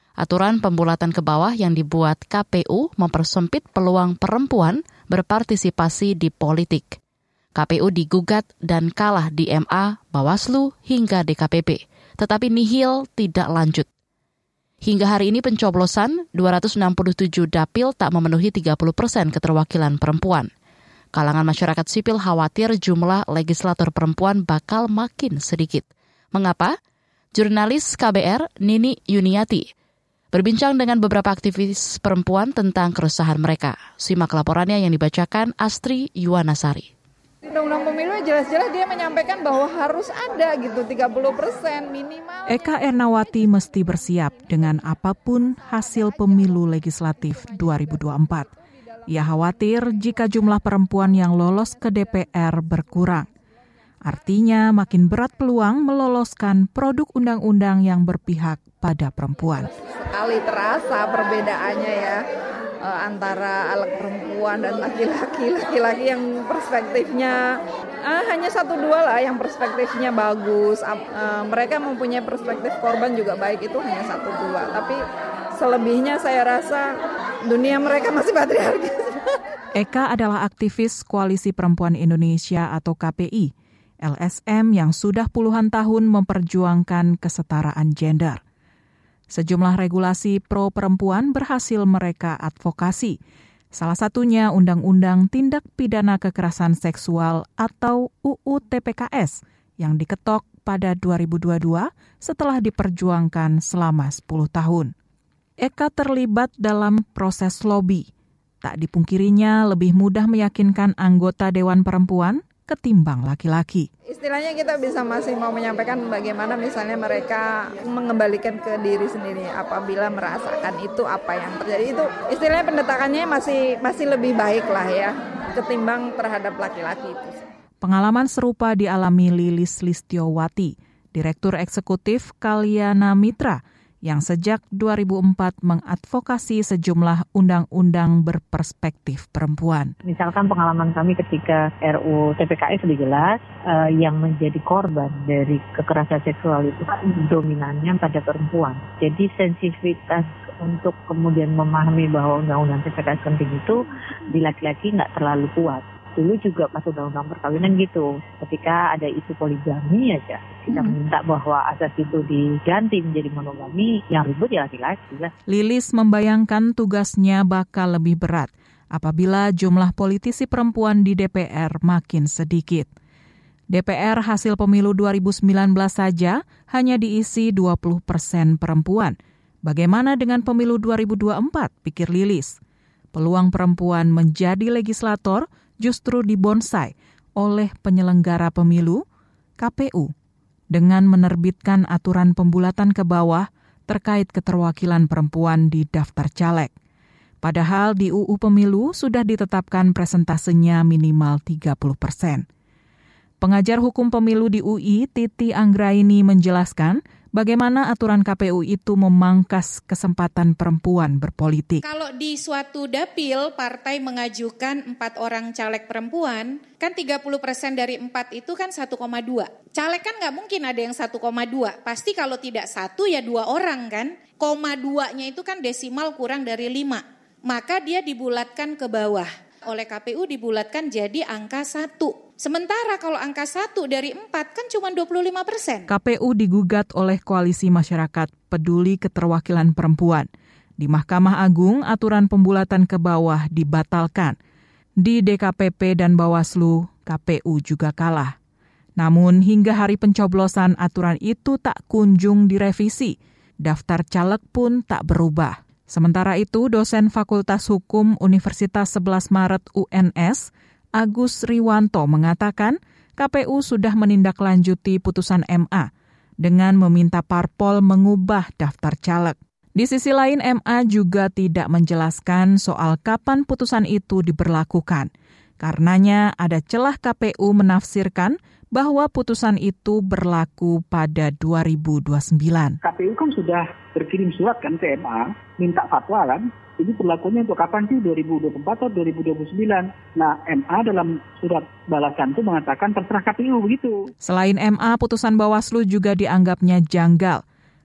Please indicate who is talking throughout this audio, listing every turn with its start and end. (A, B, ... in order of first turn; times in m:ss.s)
0:00.2-0:07.0 A
0:07.6-0:13.9 A
0:14.8-0:20.5 A
0:21.1-0:26.7 A
0:27.3-0:29.6 A
0:30.3-0:36.9 A
0:37.4-0:43.3 B
0:42.5-0:48.5 C
0:49.1-0:53.3 C
0:54.0-0:59.7 C
0:59.7-1:02.2 B
1:02.8-1:15.0 B
1:15.6-1:17.0 B
1:17.5-1:19.4 B
1:19.7-1:28.4 C
1:29.3-1:33.2 C
1:33.7-1:44.9 C
1:45.6-1:48.1 C
1:48.6-1:53.9 C
1:54.1-2:07.4 B
2:07.8-2:19.9 C
2:20.0-2:33.8 D
2:34.3-2:45.3 D
2:45.5-2:52.9 C
2:53.7-3:02.6 C
3:03.1-3:09.0 C
3:09.6-3:10.1 C
3:10.7-3:16.7 C
3:17.4-3:22.4 C
3:23.4-3:31.8 C
3:31.8-3:55.9 E
3:55.9-4:04.4 C
4:05.0-4:08.4 C
4:09.0-4:25.9 C
4:26.4-4:42.8 C
4:42.8-4:54.1 F
4:54.2-4:57.4 C